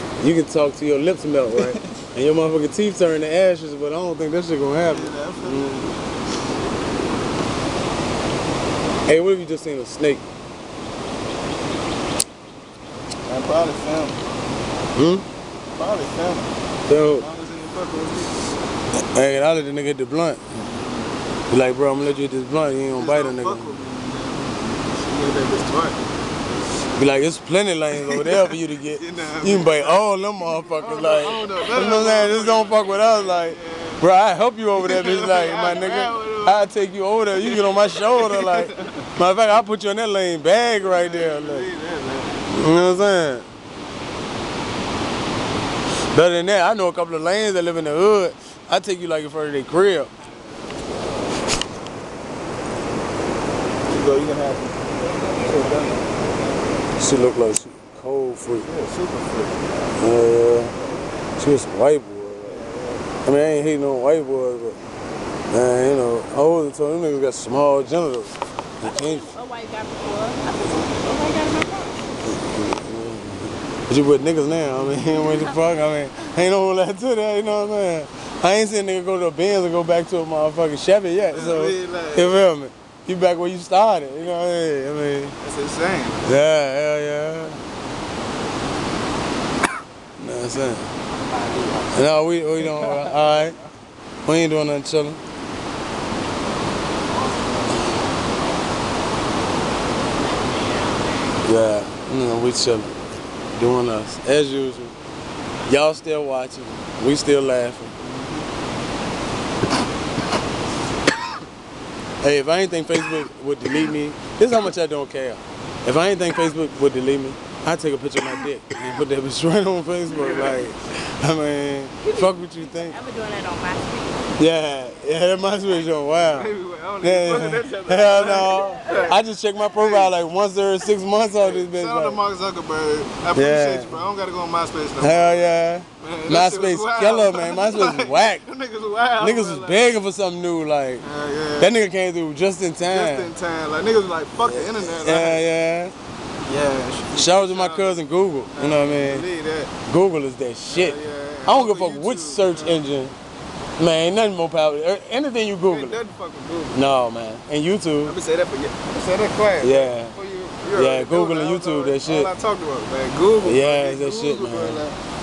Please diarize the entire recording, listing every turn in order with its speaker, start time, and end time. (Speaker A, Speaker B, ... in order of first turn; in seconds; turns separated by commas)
Speaker A: 0.2-5.9, Speaker B: 1.5-1.9, Speaker B: 4.8-6.0, Speaker A: 9.1-10.2, Speaker B: 13.3-14.2, Speaker A: 14.9-15.2, Speaker B: 15.7-16.5, Speaker A: 16.9-17.2, Speaker B: 17.1-18.5, Speaker A: 19.1-20.6, Speaker B: 20.6-21.2, Speaker A: 21.5-23.7, Speaker B: 22.9-26.0, Speaker A: 26.9-41.7, Speaker B: 27.9-34.0, Speaker B: 34.7-36.8, Speaker B: 37.3-39.0, Speaker B: 40.8-42.4, Speaker A: 42.5-43.4, Speaker A: 46.1-50.1, Speaker B: 53.9-56.4, Speaker A: 57.0-58.7, Speaker B: 58.6-59.8, Speaker A: 60.0-60.7, Speaker A: 61.4-62.6, Speaker B: 62.4-63.1, Speaker A: 63.2-64.8, Speaker A: 65.5-69.3, Speaker C: 68.8-72.0, Speaker A: 72.2-85.4, Speaker B: 81.3-82.4, Speaker B: 85.4-86.4, Speaker A: 86.2-87.6, Speaker A: 90.2-90.9, Speaker B: 91.3-91.9, Speaker A: 91.9-93.6, Speaker B: 92.6-93.4, Speaker A: 94.2-95.2, Speaker A: 101.4-103.0, Speaker A: 103.5-104.9, Speaker A: 105.7-107.9, Speaker B: 108.0-108.4, Speaker A: 112.2-123.0, Speaker C: 122.0-124.4, Speaker A: 124.4-132.2, Speaker B: 126.1-130.1, Speaker C: 128.0-129.1, Speaker B: 131.4-135.5, Speaker A: 133.3-134.0, Speaker A: 135.0-138.4, Speaker B: 136.0-139.9, Speaker A: 139.2-141.0, Speaker B: 141.0-141.7, Speaker A: 141.6-143.3, Speaker B: 142.8-145.4, Speaker A: 144.4-145.9, Speaker B: 146.4-149.7, Speaker A: 147.2-149.2, Speaker A: 149.8-153.1, Speaker B: 150.7-152.9, Speaker A: 153.8-156.0, Speaker B: 155.7-156.8, Speaker A: 156.7-158.2, Speaker B: 158.0-165.0, Speaker A: 159.6-160.1, Speaker A: 160.7-162.3, Speaker A: 163.4-164.8